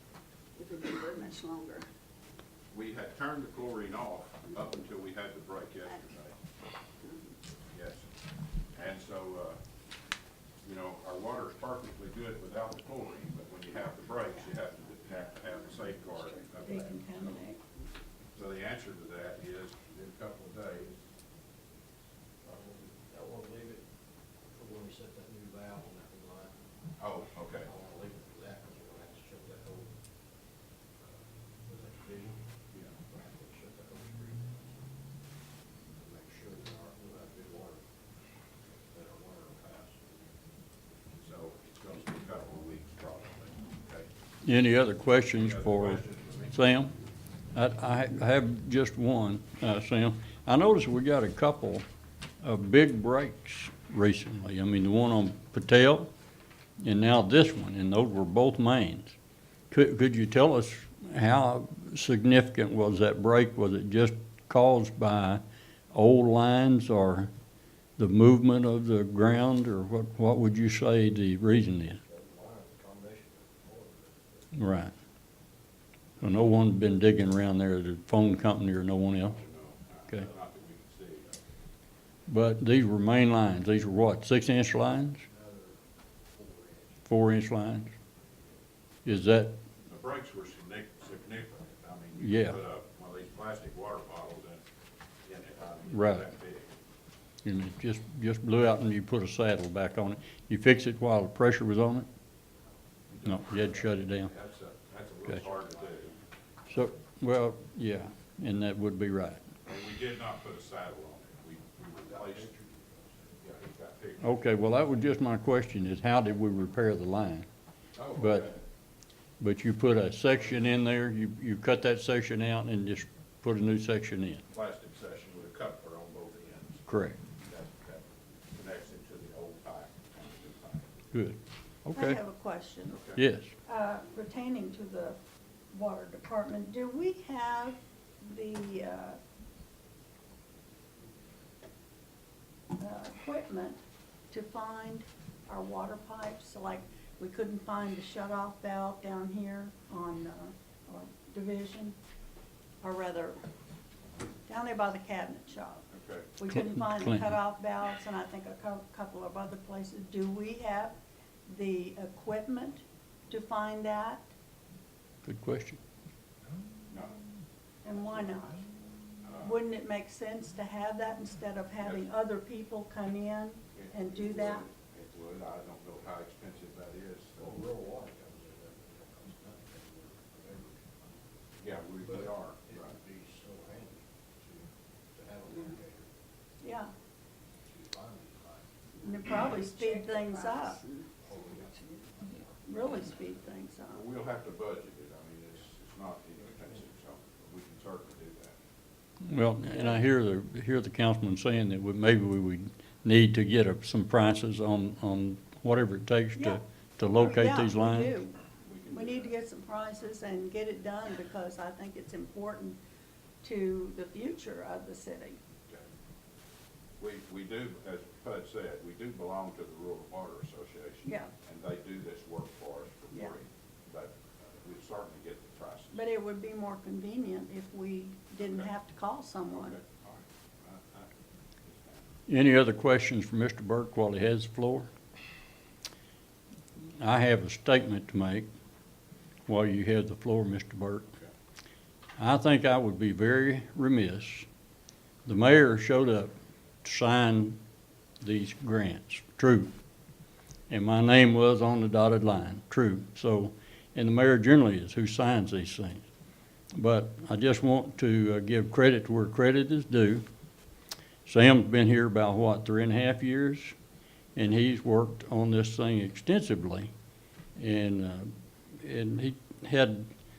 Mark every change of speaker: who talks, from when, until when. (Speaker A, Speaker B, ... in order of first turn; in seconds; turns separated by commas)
Speaker A: 0.6-1.9, Speaker B: 2.7-6.4, Speaker A: 7.0-7.3, Speaker B: 7.7-8.1, Speaker B: 8.7-9.6, Speaker B: 10.6-17.4, Speaker A: 14.3-14.6, Speaker A: 15.2-16.6, Speaker C: 16.6-17.6, Speaker B: 18.4-21.0, Speaker D: 22.4-23.9, Speaker D: 24.5-26.6, Speaker B: 27.0-27.7, Speaker D: 27.6-30.0, Speaker D: 31.0-32.5, Speaker B: 32.7-33.0, Speaker D: 33.0-34.9, Speaker D: 36.0-37.8, Speaker D: 38.9-40.4, Speaker B: 41.2-44.1, Speaker D: 41.9-42.2, Speaker E: 44.4-46.9, Speaker B: 45.4-46.5, Speaker E: 47.5-51.9, Speaker E: 52.4-56.1, Speaker E: 56.8-59.1, Speaker E: 59.7-67.3, Speaker E: 68.0-72.0, Speaker D: 72.1-74.5, Speaker E: 74.5-74.9, Speaker E: 76.2-79.4, Speaker B: 79.3-81.4, Speaker E: 82.3-85.2, Speaker D: 85.2-87.1, Speaker E: 87.1-87.9, Speaker E: 89.0-89.6, Speaker B: 89.9-94.6, Speaker E: 92.2-92.6, Speaker B: 95.2-96.8, Speaker E: 95.9-96.3, Speaker E: 97.4-102.1, Speaker B: 103.1-106.2, Speaker E: 103.2-104.3, Speaker E: 106.7-109.5, Speaker B: 109.7-112.5, Speaker D: 111.9-113.6, Speaker B: 113.4-115.1, Speaker E: 114.2-117.5, Speaker B: 118.0-118.6, Speaker E: 118.2-118.5, Speaker E: 119.4-124.4, Speaker B: 124.5-126.8, Speaker E: 126.9-127.2, Speaker B: 127.4-130.9, Speaker E: 131.1-132.2, Speaker C: 131.9-133.0, Speaker B: 132.9-133.2, Speaker E: 133.2-133.5, Speaker C: 133.7-135.2, Speaker C: 135.7-139.2, Speaker C: 142.8-152.0, Speaker C: 152.8-153.4, Speaker C: 154.5-155.8, Speaker B: 155.9-156.3, Speaker C: 156.4-160.9, Speaker E: 156.5-157.3, Speaker C: 161.5-164.3, Speaker E: 165.2-165.8, Speaker B: 166.9-167.2, Speaker C: 167.8-168.6, Speaker B: 169.2-169.6, Speaker C: 169.4-174.7, Speaker B: 171.8-172.1, Speaker B: 173.7-177.6, Speaker D: 177.4-181.3, Speaker B: 181.6-183.0, Speaker D: 182.1-186.1, Speaker C: 186.6-186.9, Speaker D: 187.6-188.8, Speaker C: 189.0-190.8, Speaker A: 189.0-192.4, Speaker D: 191.1-192.9, Speaker C: 192.7-194.0, Speaker B: 193.9-198.6, Speaker E: 199.2-208.1, Speaker C: 199.7-200.0, Speaker C: 206.4-206.6, Speaker C: 207.2-208.4, Speaker B: 208.6-209.4, Speaker C: 208.9-212.8, Speaker C: 213.4-215.4, Speaker B: 217.0-226.0, Speaker C: 225.9-229.8, Speaker B: 228.4-228.7, Speaker B: 229.5-231.1, Speaker B: 231.6-232.1, Speaker E: 232.3-234.9, Speaker E: 237.0-238.5, Speaker E: 239.5-241.1, Speaker E: 242.2-244.5, Speaker E: 245.3-246.3, Speaker E: 246.8-247.6, Speaker E: 248.2-249.7, Speaker E: 250.7-256.0, Speaker E: 256.8-260.2, Speaker E: 261.3-263.7, Speaker E: 264.4-266.9, Speaker E: 267.6-270.1